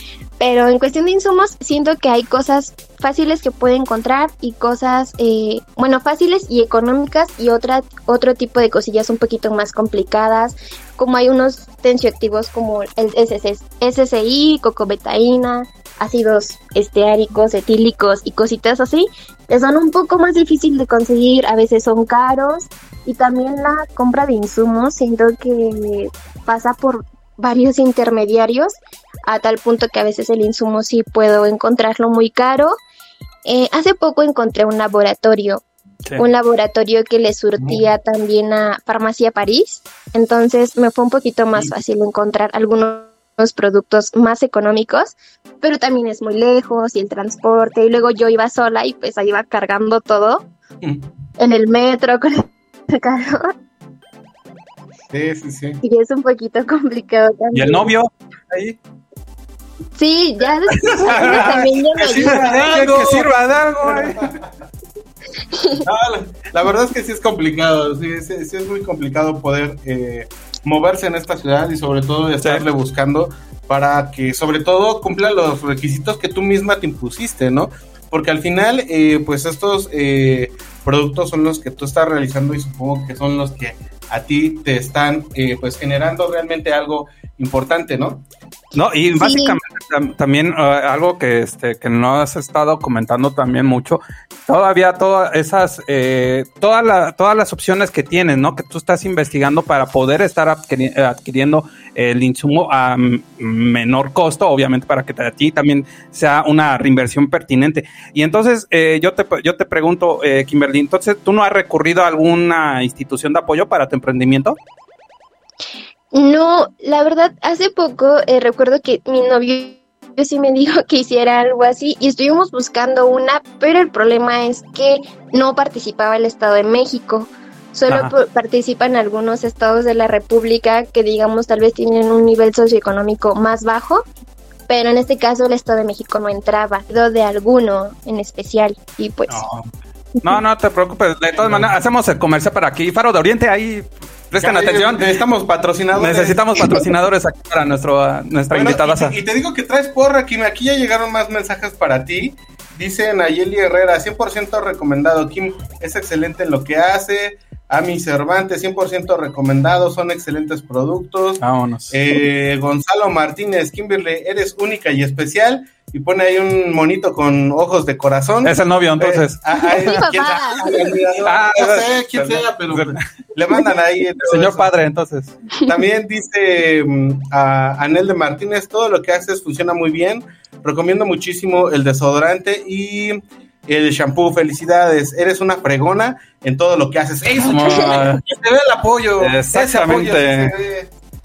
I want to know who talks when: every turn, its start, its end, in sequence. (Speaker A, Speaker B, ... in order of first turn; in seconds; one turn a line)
Speaker A: 0.4-32.8
Speaker A: 33.5-35.6
Speaker A: 36.2-50.4
Speaker B: 37.6-37.9
Speaker A: 51.4-53.5
Speaker B: 55.1-55.8
Speaker A: 55.8-57.9
Speaker C: 57.5-58.8
Speaker A: 60.0-62.5
Speaker C: 60.7-64.3
Speaker B: 61.1-63.3
Speaker B: 63.8-64.4
Speaker A: 65.5-65.8
Speaker B: 65.8-88.2
Speaker C: 88.7-114.6
Speaker A: 89.1-89.6
Speaker A: 116.1-134.0
Speaker C: 127.9-128.1
Speaker A: 134.7-139.4
Speaker C: 139.3-139.7
Speaker C: 140.2-145.2
Speaker B: 141.4-141.7
Speaker B: 144.3-146.8
Speaker C: 145.9-149.2
Speaker B: 148.5-174.7
Speaker C: 161.4-161.9
Speaker C: 168.4-170.1
Speaker A: 169.6-170.9
Speaker C: 171.2-173.0
Speaker C: 174.2-175.3
Speaker B: 175.7-190.9
Speaker C: 187.3-188.2
Speaker C: 189.2-190.5